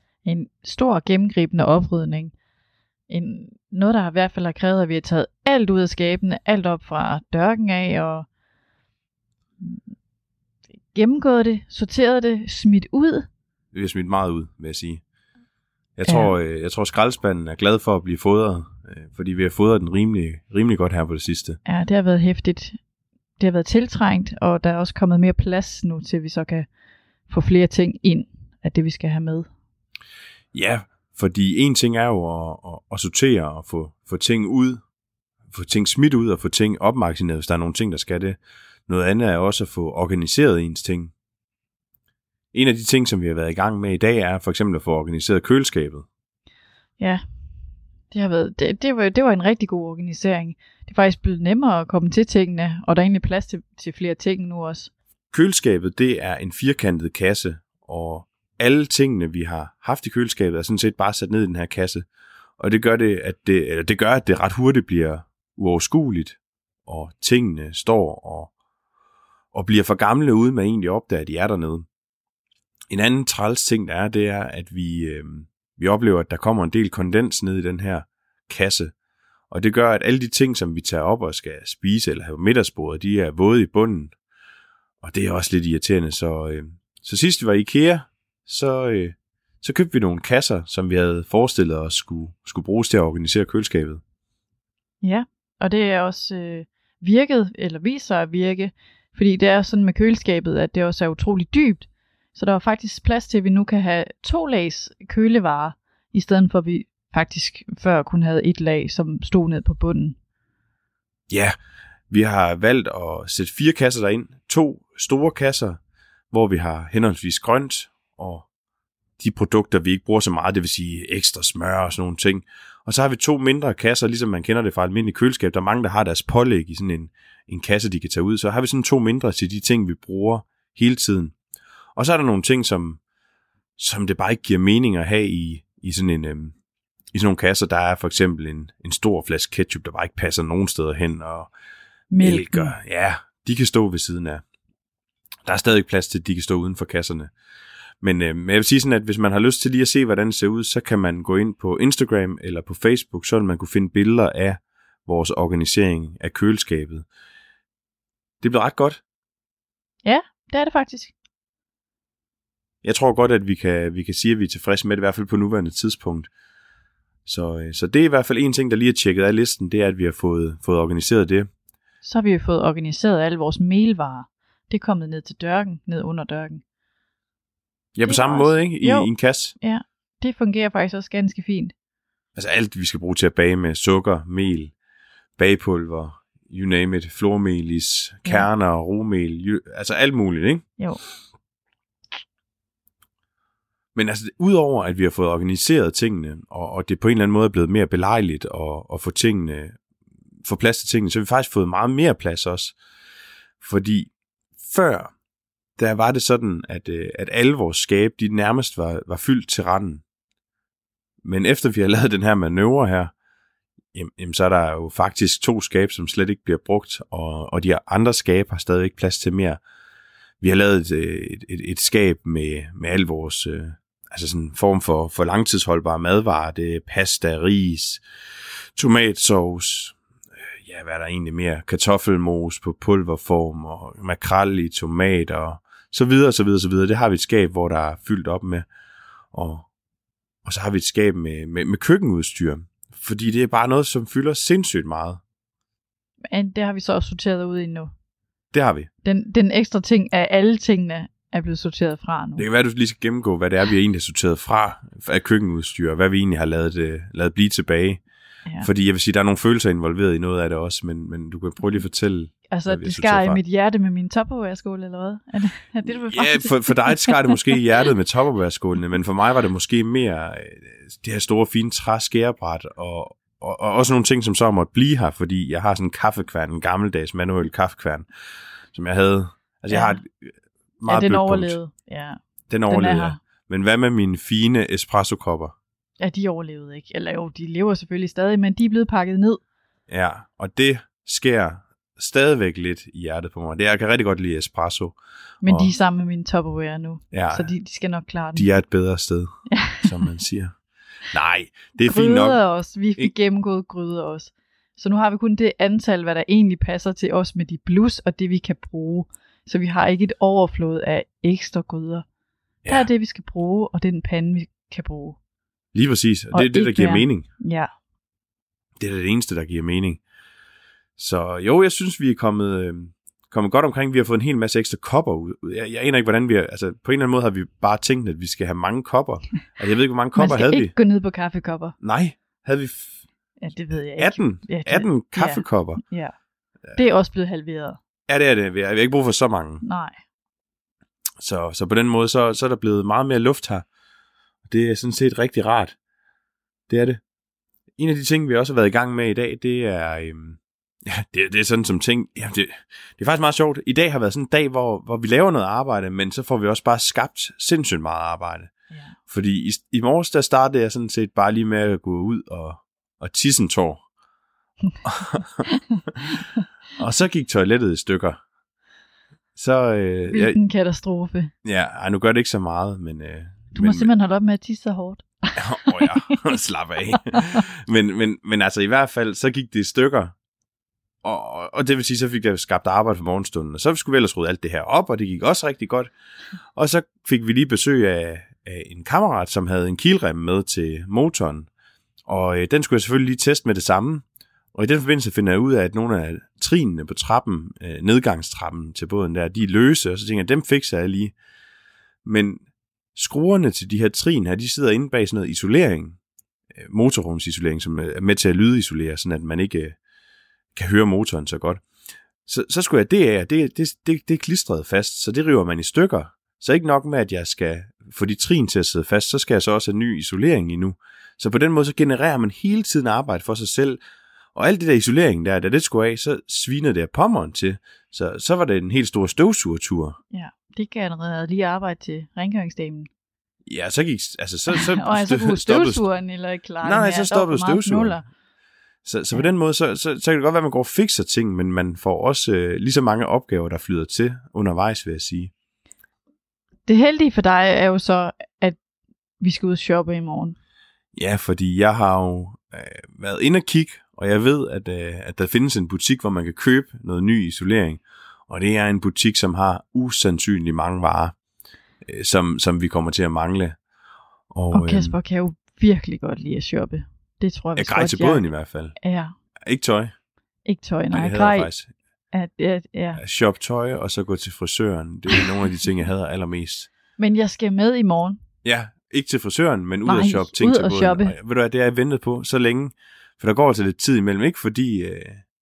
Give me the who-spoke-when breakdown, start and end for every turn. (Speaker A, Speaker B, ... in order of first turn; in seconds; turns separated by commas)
Speaker A: 0.2-2.3, Speaker A: 3.1-8.3, Speaker A: 10.9-13.3, Speaker B: 13.7-15.0, Speaker B: 16.0-21.6, Speaker A: 16.1-16.3, Speaker A: 21.7-22.8, Speaker A: 23.4-26.7, Speaker A: 27.3-29.5, Speaker B: 30.5-34.8, Speaker B: 35.5-41.1, Speaker B: 42.5-46.1, Speaker A: 47.0-47.2, Speaker A: 48.1-54.9, Speaker B: 55.3-62.0, Speaker B: 62.6-68.5, Speaker B: 69.5-71.9, Speaker B: 72.9-78.9, Speaker B: 79.5-84.1, Speaker B: 85.0-94.0, Speaker A: 95.0-110.2, Speaker B: 111.3-111.6, Speaker B: 112.1-115.8, Speaker B: 116.3-118.5, Speaker B: 119.2-131.3, Speaker B: 132.0-133.0, Speaker B: 133.8-136.5, Speaker B: 137.1-141.5, Speaker A: 142.1-142.7, Speaker B: 142.2-144.4, Speaker B: 145.5-147.3, Speaker B: 148.0-157.1, Speaker B: 158.4-159.0, Speaker A: 160.0-161.1, Speaker B: 162.8-166.3, Speaker B: 167.3-171.5, Speaker A: 172.0-176.6, Speaker B: 177.9-179.5, Speaker A: 178.1-181.7, Speaker B: 182.4-184.7, Speaker B: 185.4-190.6, Speaker B: 193.9-199.8, Speaker B: 200.4-202.8, Speaker B: 203.6-205.1, Speaker B: 205.8-210.0, Speaker B: 211.2-213.1, Speaker B: 213.9-219.6, Speaker B: 220.4-228.0, Speaker B: 228.8-230.0, Speaker B: 230.6-238.7, Speaker B: 239.3-239.7, Speaker B: 240.4-245.2, Speaker A: 246.3-247.9, Speaker B: 248.5-248.9, Speaker A: 249.0-252.5, Speaker B: 252.4-258.0, Speaker B: 258.6-263.4, Speaker A: 262.5-267.9, Speaker B: 266.1-278.1, Speaker B: 278.7-280.3, Speaker A: 279.7-280.0, Speaker B: 280.8-281.6, Speaker A: 280.9-283.2, Speaker B: 282.5-285.6, Speaker A: 286.0-289.4, Speaker B: 289.9-295.7, Speaker A: 295.4-298.5, Speaker B: 297.1-297.5, Speaker B: 298.4-299.3, Speaker A: 299.5-300.1, Speaker B: 299.8-300.5, Speaker B: 301.1-302.4, Speaker A: 301.8-312.1, Speaker A: 312.7-315.2, Speaker B: 315.7-317.3, Speaker A: 316.3-317.7, Speaker B: 318.8-320.0, Speaker B: 321.0-330.8, Speaker A: 330.1-331.8, Speaker B: 331.8-333.0, Speaker A: 333.4-336.1, Speaker B: 334.0-335.8, Speaker A: 336.8-337.8, Speaker B: 338.1-339.6, Speaker A: 339.6-340.0, Speaker B: 341.2-343.6, Speaker B: 344.5-345.8, Speaker B: 346.7-347.0, Speaker B: 347.8-358.5, Speaker B: 359.1-363.8, Speaker B: 364.9-365.4, Speaker B: 366.8-368.2, Speaker B: 369.4-370.4, Speaker A: 370.1-371.3, Speaker B: 371.4-373.9, Speaker A: 373.5-376.2, Speaker B: 375.4-380.1, Speaker B: 381.0-385.9, Speaker B: 386.6-391.5, Speaker B: 392.1-401.1, Speaker B: 402.0-402.4, Speaker B: 402.9-406.0, Speaker B: 406.6-409.8, Speaker B: 410.6-411.6, Speaker B: 412.3-423.8, Speaker B: 424.4-430.0, Speaker A: 430.1-432.9, Speaker B: 433.5-435.8, Speaker A: 434.5-438.1, Speaker B: 436.6-438.0, Speaker B: 438.9-445.3, Speaker A: 446.7-448.6, Speaker A: 449.2-450.4, Speaker B: 450.9-461.1, Speaker B: 461.9-463.6, Speaker B: 464.3-465.0, Speaker A: 464.5-468.2, Speaker B: 467.6-468.8, Speaker A: 468.8-469.1, Speaker B: 469.4-469.9, Speaker A: 470.5-471.5, Speaker B: 470.9-471.7, Speaker A: 472.1-473.0, Speaker B: 472.9-476.7, Speaker A: 477.0-478.2, Speaker B: 478.4-485.2, Speaker A: 479.9-481.1